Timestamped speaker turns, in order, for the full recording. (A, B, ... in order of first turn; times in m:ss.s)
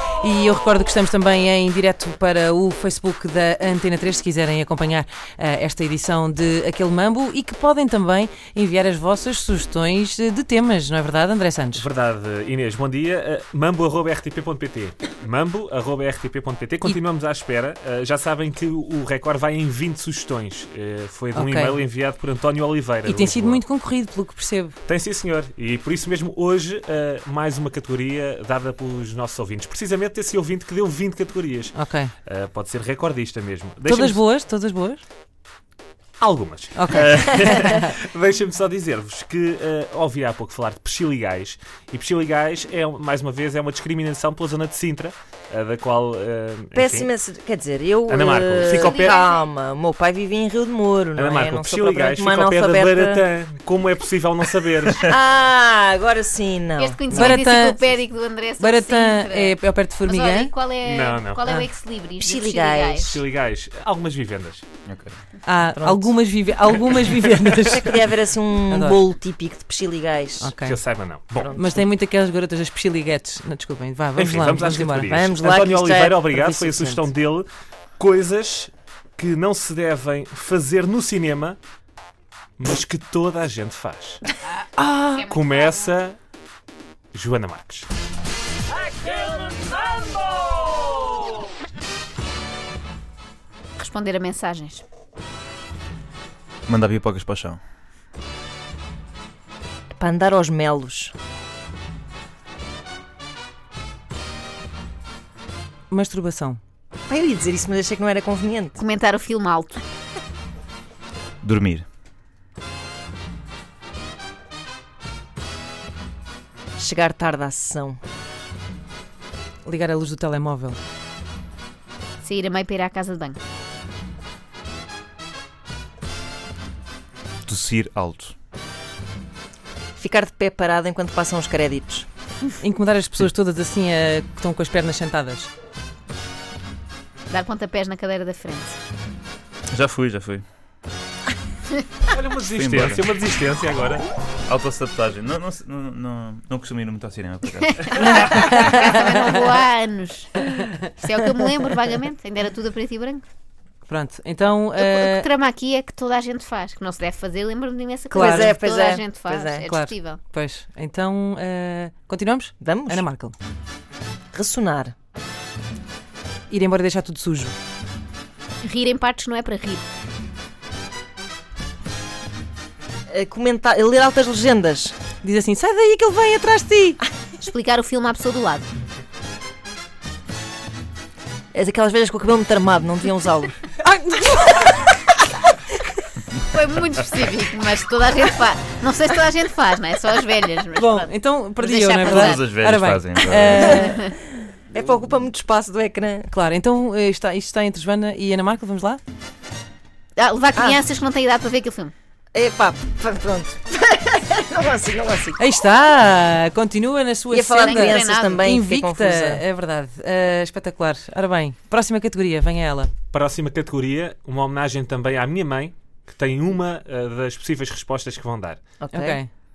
0:00.2-0:11.8 A
0:11.7-0:23.6 B
0:21.3-0:21.8 A
0:23.0-0:24.8 A
0:24.8-0:34.2 B
0:31.7-0:32.1 A
0:33.8-0:35.0 A
0:36.2-0:47.1 B
0:36.7-0:37.9 A
0:46.7-0:53.2 C
0:48.1-0:49.2 B
0:48.8-0:49.4 D
0:51.2-0:55.1 B
0:54.9-0:57.4 C
0:56.8-1:03.0 D
0:57.1-0:57.8 A
0:58.6-1:00.5 A
1:00.8-1:01.6 B
1:02.2-1:03.1 C
1:03.0-1:04.6 B
1:04.8-1:05.2 E
1:05.4-1:08.0 A
1:05.7-1:06.1 C
1:07.6-1:10.5 C
1:08.7-1:09.0 A
1:10.4-1:10.8 A
1:10.6-1:11.5 B
1:11.4-1:11.8 C
1:11.5-1:15.1 A
1:14.2-1:21.6 B
1:15.1-1:17.1 C
1:22.6-1:24.2 B
1:24.8-1:25.2 C
1:25.2-1:26.2 B
1:27.1-1:27.9 B
1:33.8-1:34.8 D
1:36.7-1:37.6 E
1:40.0-1:41.1 C
1:45.9-1:46.6 A
1:47.1-1:48.8 C
1:48.8-1:49.8 D
1:51.4-1:51.8 E
1:56.8-1:58.0 C
1:59.6-2:00.8 A
2:02.2-2:03.4 D
2:07.4-2:08.3 E
2:10.0-2:12.1 C
2:12.6-2:15.5 A
2:17.3-2:18.8 D
2:19.7-2:20.4 E
2:22.1-2:24.0 B
2:22.5-2:23.0 E
2:24.5-2:28.3 E
2:27.9-2:30.4 D
2:28.2-2:28.8 A
2:31.0-2:33.2 D
2:33.9-2:35.3 A
2:34.8-2:40.2 D
2:38.1-2:39.6 C
2:38.2-2:38.6 A
2:39.6-2:43.3 A
2:42.6-2:43.0 C
2:44.3-2:44.9 C
2:46.5-2:47.5 A
2:48.6-2:49.8 D
2:53.1-2:54.9 C
2:55.2-2:57.0 A
2:57.4-2:58.7 D
3:01.5-3:03.7 C
3:03.8-3:04.8 A
3:06.5-3:11.1 D
3:10.8-3:14.1 A
3:11.6-3:12.3 D
3:12.2-3:13.8 E
3:13.6-3:16.3 C
3:16.3-3:19.0 A
3:20.2-3:21.9 D
3:20.5-3:20.8 C
3:22.3-3:25.4 C
3:25.4-3:32.9 A
3:27.3-3:29.4 C
3:27.6-3:28.3 D
3:33.1-3:38.6 B
3:38.8-3:39.2 C
3:38.9-3:39.3 A